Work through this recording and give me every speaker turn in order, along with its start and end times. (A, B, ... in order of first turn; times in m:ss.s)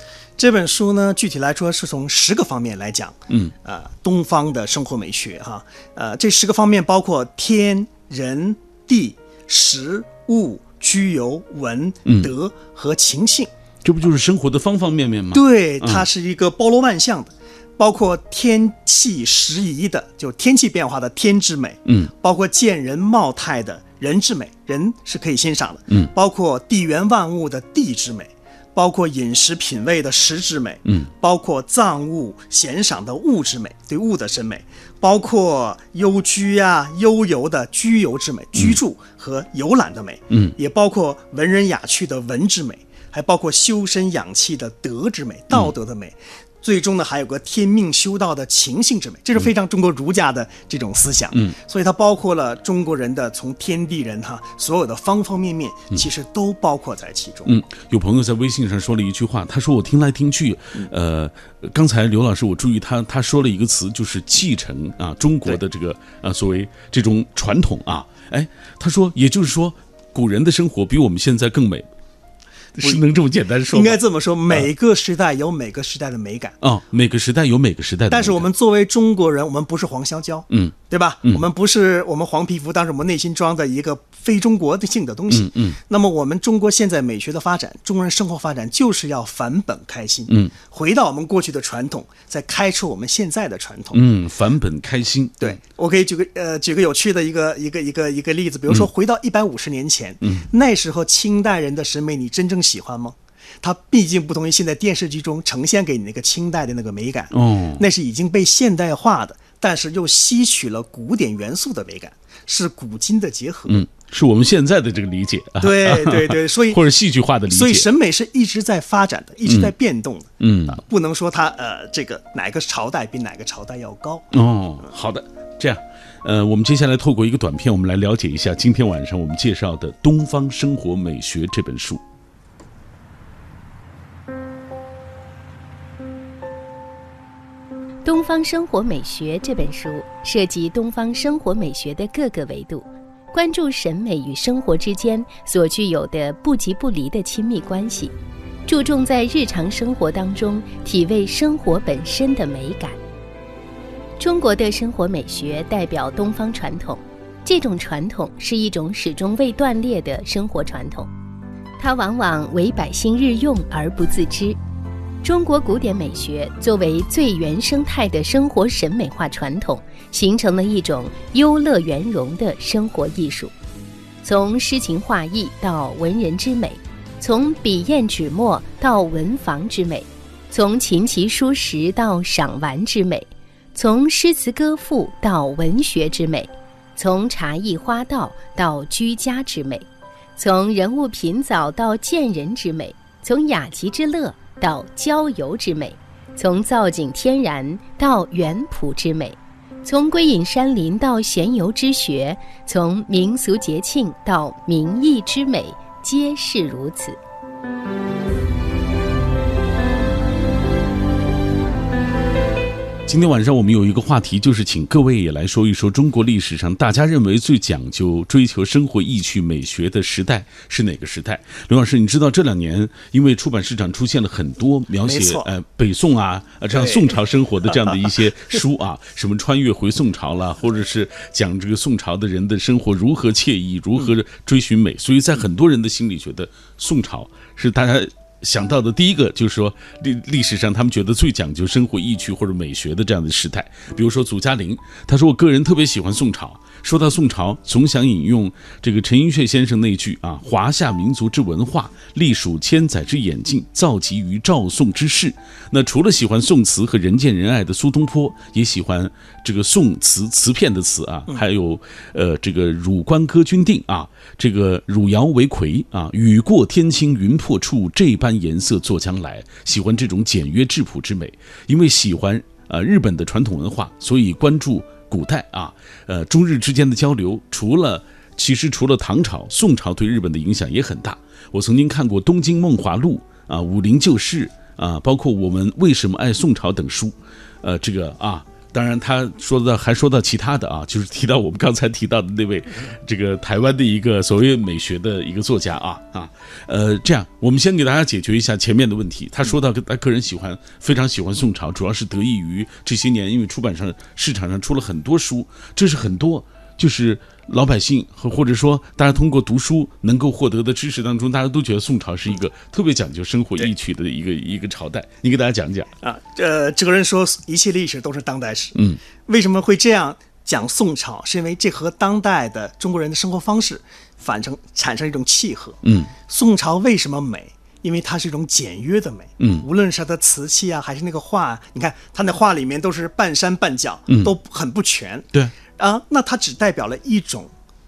0:00.4-0:13.5 A
0:12.1-0:12.3 B
0:13.8-0:16.1 B
0:15.3-0:57.6 A
0:21.9-0:22.1 B
0:40.3-0:40.6 B
0:57.5-1:11.9 B
1:12.8-1:14.7 B
1:13.7-1:16.6 A
1:16.6-1:18.5 B
1:18.1-1:34.0 A
1:25.3-1:25.8 B
1:30.3-1:30.5 B
1:33.9-1:35.6 B
1:35.4-1:53.8 A
1:47.3-1:47.8 B
1:53.7-1:57.9 B
1:55.6-1:56.8 A
1:57.5-2:04.3 A
1:59.5-1:59.7 B
2:00.4-2:00.8 B
2:04.3-2:12.0 B
2:18.0-2:28.1 C
2:28.7-2:33.0 C
2:34.2-2:41.1 C
2:41.8-2:44.6 C
2:45.2-2:53.5 C
2:54.2-3:09.9 C
3:10.4-3:27.2 C
3:33.1-5:15.9 B
3:45.0-3:45.5 A
3:46.7-3:47.2 A
3:47.7-3:48.0 A
5:16.0-5:37.5 A
5:18.8-5:19.0 B
5:25.8-5:26.1 B
5:29.4-5:29.6 B
5:34.1-5:34.3 B